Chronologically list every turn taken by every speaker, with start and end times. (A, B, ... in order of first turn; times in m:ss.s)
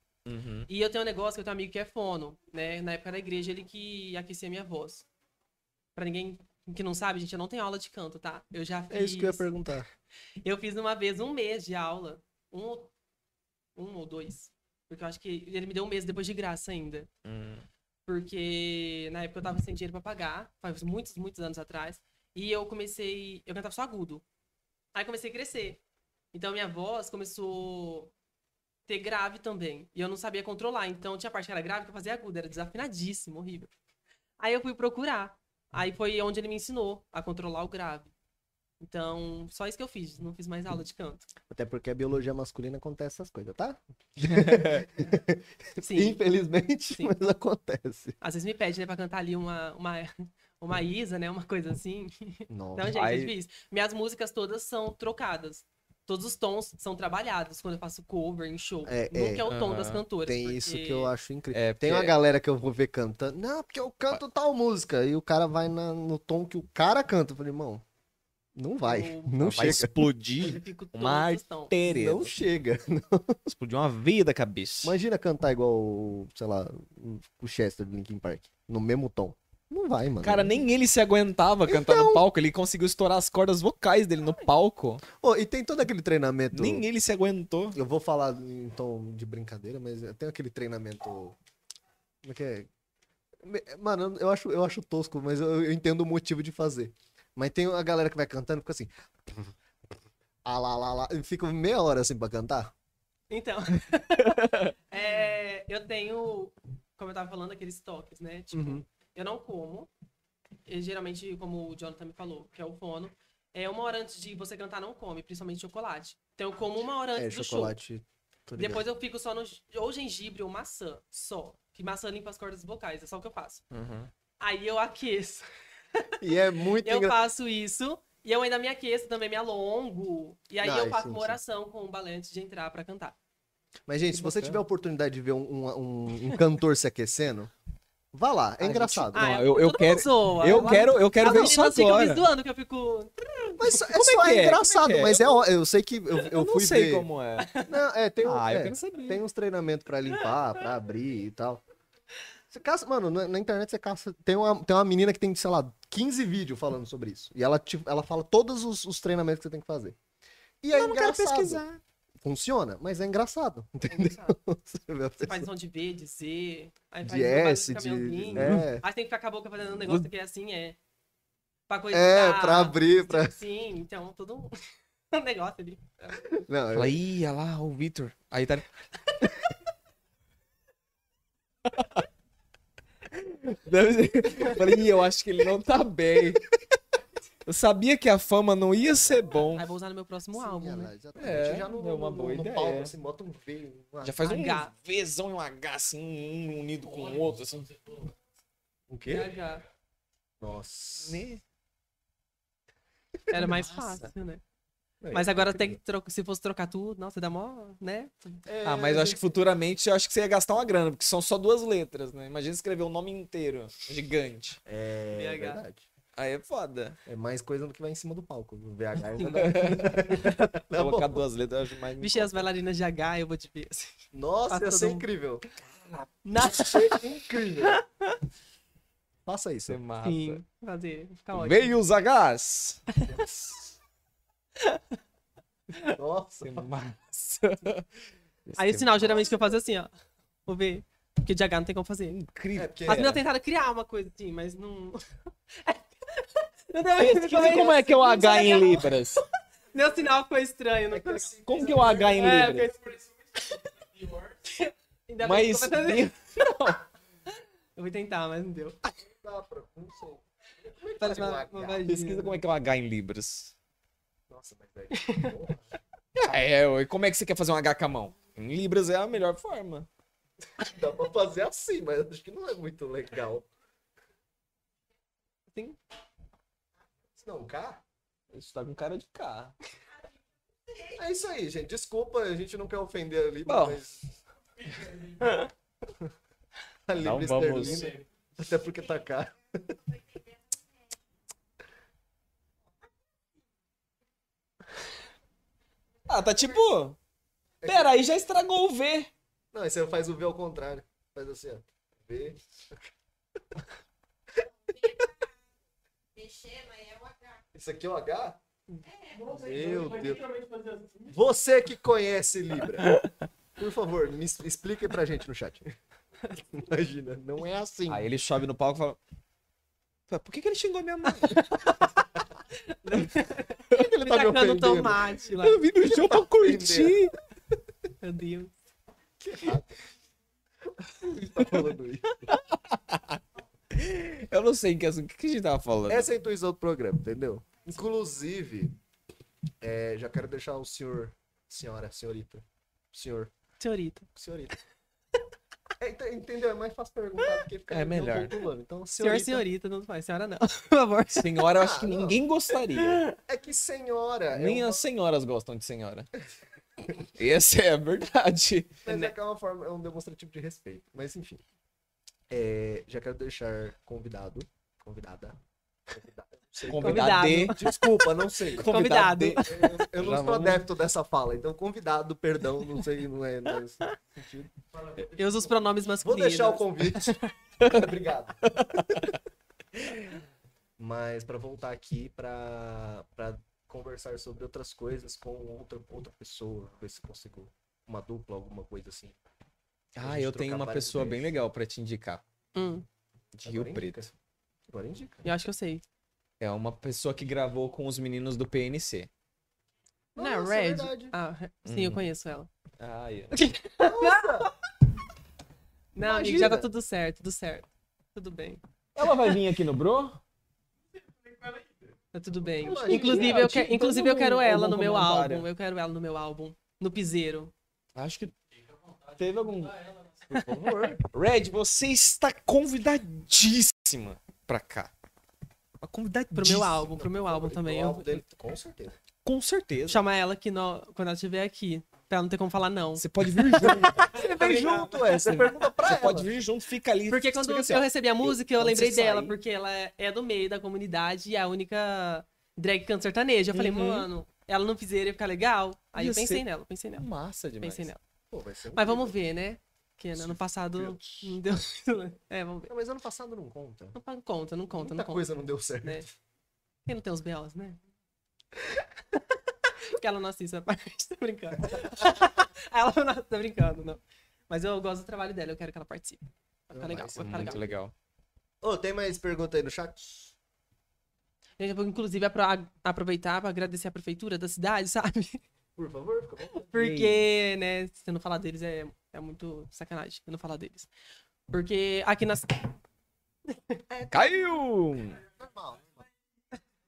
0:00.3-0:00.7 A
0:00.7-0:05.1 B
0:06.0-0:09.5 B
0:08.9-0:09.9 C
0:10.4-0:12.9 B
0:13.8-0:17.1 B
0:17.2-0:17.6 A
0:18.1-0:24.2 B
0:24.9-0:25.8 B
0:26.3-0:28.1 B
0:28.9-0:33.7 B
0:34.4-0:38.1 B
0:38.8-0:41.3 B
0:41.5-0:48.2 C
0:44.3-0:44.9 A
0:45.8-0:46.2 B
0:48.2-1:01.1 B
0:52.5-0:52.9 C
0:52.9-0:53.3 A
0:58.9-0:59.4 C
0:59.5-1:00.0 A
1:00.2-1:07.8 C
1:01.5-1:02.1 A
1:08.6-1:10.0 C
1:08.8-1:09.8 B
1:09.4-1:12.3 A
1:10.4-1:11.7 B
1:11.8-1:13.4 C
1:13.5-1:15.0 A
1:14.8-1:20.6 C
1:20.2-1:25.0 A
1:21.7-1:22.2 C
1:25.2-1:26.8 C
1:26.5-1:27.8 A
1:27.7-1:31.4 C
1:32.2-1:32.7 C
1:33.4-1:39.5 C
1:40.4-1:42.7 C
1:43.3-1:49.9 B
1:48.5-1:48.8 C
1:50.7-1:57.8 B
1:57.2-1:58.8 C
1:58.6-2:03.6 B
2:03.7-2:04.1 A
2:04.4-2:06.1 B
2:06.2-2:07.2 C
2:06.8-2:13.2 B
2:10.6-2:11.4 C
2:13.9-2:17.5 C
2:14.1-2:14.6 A
2:18.1-2:19.3 C
2:18.6-2:22.2 A
2:19.1-2:23.5 B
2:20.5-2:21.5 C
2:23.5-2:27.1 C
2:23.7-2:25.3 A
2:26.3-2:27.5 A
2:27.4-2:27.7 B
2:27.6-2:31.6 C
2:28.2-2:29.2 A
2:32.5-2:40.0 C
2:40.6-2:41.6 C
2:40.7-2:41.8 A
2:42.2-2:45.5 C
2:43.9-2:44.4 B
2:45.2-2:50.8 B
2:47.0-2:48.8 C
2:48.4-2:48.7 A
2:51.7-2:54.6 B
2:51.9-2:53.3 C
2:55.1-2:56.2 B
2:56.2-2:57.0 C
2:56.7-2:58.7 A
3:01.7-3:02.0 A
3:03.1-3:06.4 A
3:07.5-3:09.7 A
3:09.6-3:10.9 B
3:10.3-3:14.2 C
3:11.2-3:12.9 A
3:14.0-3:18.0 A
3:14.2-3:14.7 B
3:18.9-3:19.3 C
3:19.1-3:19.6 B
3:20.4-3:21.2 C
3:21.0-3:21.4 A
3:23.3-3:23.9 C
3:23.3-3:24.4 B
3:25.0-3:25.8 C
3:25.1-3:28.4 B
3:28.5-3:29.4 C
3:28.6-3:34.6 A
3:34.7-3:35.9 C
3:35.1-3:35.6 B
3:36.2-3:37.0 A
3:37.1-3:41.2 C
3:39.2-3:39.5 B
3:39.4-3:40.0 A
3:40.7-3:42.4 A
3:42.0-3:45.0 B
3:44.1-3:45.5 C
3:46.2-3:47.0 B
3:46.4-3:47.8 C
3:47.6-3:48.2 B
3:49.2-3:49.8 C
3:49.7-3:50.4 A
3:50.0-3:51.7 B
3:51.3-3:52.8 A
3:53.0-3:53.7 C
3:55.8-3:56.7 C
3:56.4-3:57.8 A
3:58.5-3:58.9 A
3:58.6-3:59.9 B
3:59.0-3:59.5 C
4:00.5-4:02.2 B
4:02.1-4:03.2 A
4:02.5-4:03.2 C
4:02.9-4:08.9 B
4:07.0-4:09.2 A
4:07.5-4:07.8 C
4:09.7-4:11.3 B
4:10.9-4:12.5 C
4:11.5-4:12.7 A
4:12.2-4:16.5 B
4:15.2-4:16.8 A
4:17.8-4:18.8 B
4:19.0-4:21.9 C
4:21.0-4:22.4 B
4:21.9-4:23.5 A
4:24.3-4:25.6 C
4:24.9-4:25.3 B
4:26.2-4:29.9 A
4:30.6-4:33.5 C
4:35.5-4:35.8 B
4:37.2-4:37.8 C
4:38.3-4:39.6 A
4:40.9-4:44.0 C
4:43.5-4:43.8 A
4:46.9-4:49.8 C
4:47.0-4:47.9 A
4:56.1-4:57.0 A
4:57.6-4:58.0 C
4:57.6-4:59.1 A
4:59.5-5:02.9 C
5:04.4-5:05.1 C
5:07.5-5:08.4 C
5:09.2-5:10.3 C
5:11.0-5:13.0 C
5:13.6-5:15.7 C
5:16.3-5:18.1 C
5:17.9-5:19.0 A
5:20.1-5:21.5 A
5:21.2-5:21.9 B
5:22.5-5:25.6 B
5:23.8-5:25.1 C
5:25.4-5:27.1 A
5:25.8-5:27.1 C
5:28.0-5:28.5 B
5:29.2-5:29.7 C
5:30.8-5:32.3 C
5:32.3-5:33.2 A
5:33.7-5:36.1 A
5:35.9-5:38.8 C
5:39.6-5:43.3 C
5:43.6-5:44.1 B
5:44.2-5:44.5 C
5:45.8-5:49.5 C
5:47.7-5:48.4 A
5:49.0-5:51.5 B
5:51.1-5:53.0 A
5:51.5-5:52.2 C
5:52.8-5:53.2 B
5:53.2-5:54.8 C
5:54.3-5:56.1 A
5:57.2-5:58.8 A
5:58.8-6:01.4 C
5:58.9-5:59.1 B
6:02.3-6:08.7 C
6:06.7-6:07.6 A
6:06.8-6:09.9 B
6:08.6-6:10.6 A
6:09.4-6:19.1 C
6:15.1-6:17.3 B
6:18.5-6:19.1 A
6:20.8-6:29.2 C
6:30.0-6:32.2 A
6:30.0-6:31.3 C
6:32.6-6:32.9 B
6:33.4-6:34.1 A
6:33.4-6:34.1 C
6:34.7-6:35.3 C
6:35.2-6:35.8 B
6:36.4-6:39.1 A
6:40.2-6:41.2 C
6:40.2-6:42.5 B
6:41.7-6:42.1 A
6:42.8-6:43.4 A
6:43.3-6:44.5 B
6:43.8-6:44.5 C
6:46.0-6:49.4 B
6:46.0-6:46.7 C
6:49.0-6:50.2 A
6:52.1-6:57.5 B
6:52.6-6:53.5 C
6:52.7-6:55.5 A
6:58.0-6:58.3 A
6:59.1-7:00.0 A
7:00.3-7:01.0 C
7:01.0-7:04.9 A
7:05.8-7:06.9 A
7:06.4-7:08.2 B
7:06.9-7:09.0 C
7:09.2-7:10.0 A
7:09.9-7:15.2 B
7:13.0-7:18.3 A
7:13.6-7:16.3 C
7:17.1-7:27.1 B
7:18.6-7:19.3 C
7:23.5-7:24.1 A
7:26.0-7:27.9 A
7:27.6-7:28.0 B
7:28.3-7:29.2 C
7:28.8-7:32.7 B
7:30.2-7:31.3 C
7:32.7-7:34.0 C
7:33.9-7:35.2 B
7:34.8-7:36.1 C
7:36.9-7:37.8 B
7:39.2-7:47.6 B
7:46.7-7:47.8 C
7:47.2-7:47.9 A
7:48.6-7:50.4 C
7:51.6-7:55.4 B
7:55.8-7:56.7 C
7:56.6-8:00.9 B
7:56.8-7:57.2 A
8:01.5-8:02.7 B
8:03.5-8:03.8 B
8:03.9-8:04.5 C
8:04.1-8:05.2 A
8:05.4-8:06.0 C